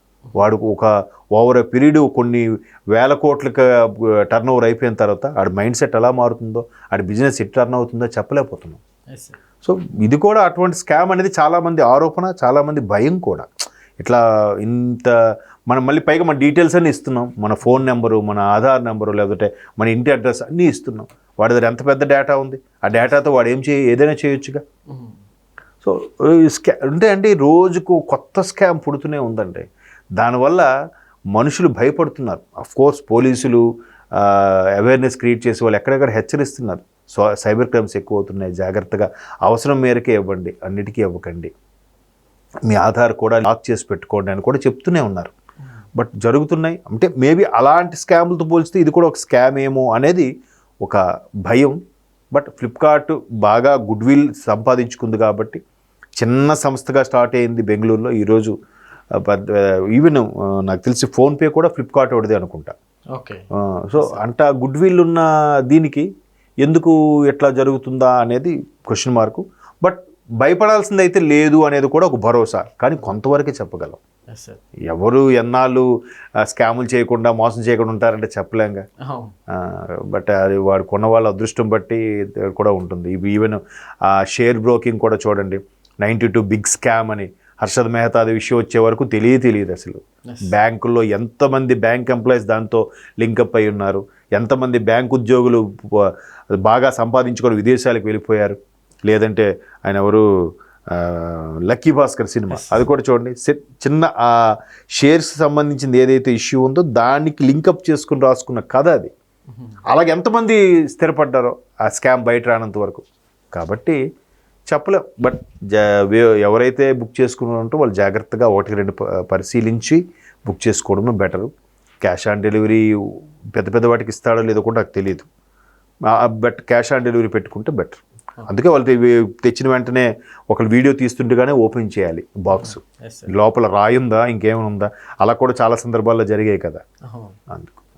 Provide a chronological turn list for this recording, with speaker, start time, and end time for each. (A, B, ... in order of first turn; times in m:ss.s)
0:00.4-0:08.8 A
0:09.1-0:09.4 B
0:09.6-0:13.5 A
0:14.0-0:15.2 A
0:15.7-0:24.6 A
0:24.9-0:25.2 B
0:25.8-0:29.6 A
0:30.2-0:30.7 A
0:31.3-0:41.5 A
0:42.7-0:45.3 A
0:46.0-0:50.3 A
0:50.8-0:51.8 A
0:52.3-0:55.6 A
0:56.2-0:58.5 A
0:59.1-1:02.7 A
1:03.1-1:03.4 B
1:03.6-1:06.1 A
1:06.6-1:14.0 A
1:14.3-1:14.6 B
1:14.9-1:15.9 A
1:16.5-1:18.8 A
1:19.0-1:19.3 B
1:19.5-1:40.2 A
1:40.9-1:49.1 A
1:42.5-1:42.8 B
1:49.5-1:49.8 B
1:49.9-1:54.0 A
1:54.7-2:01.5 A
2:02.0-2:02.9 A
2:03.5-2:05.3 A
2:06.1-2:16.8 A
2:12.5-2:13.3 B
2:17.1-2:17.4 B
2:17.5-2:17.8 A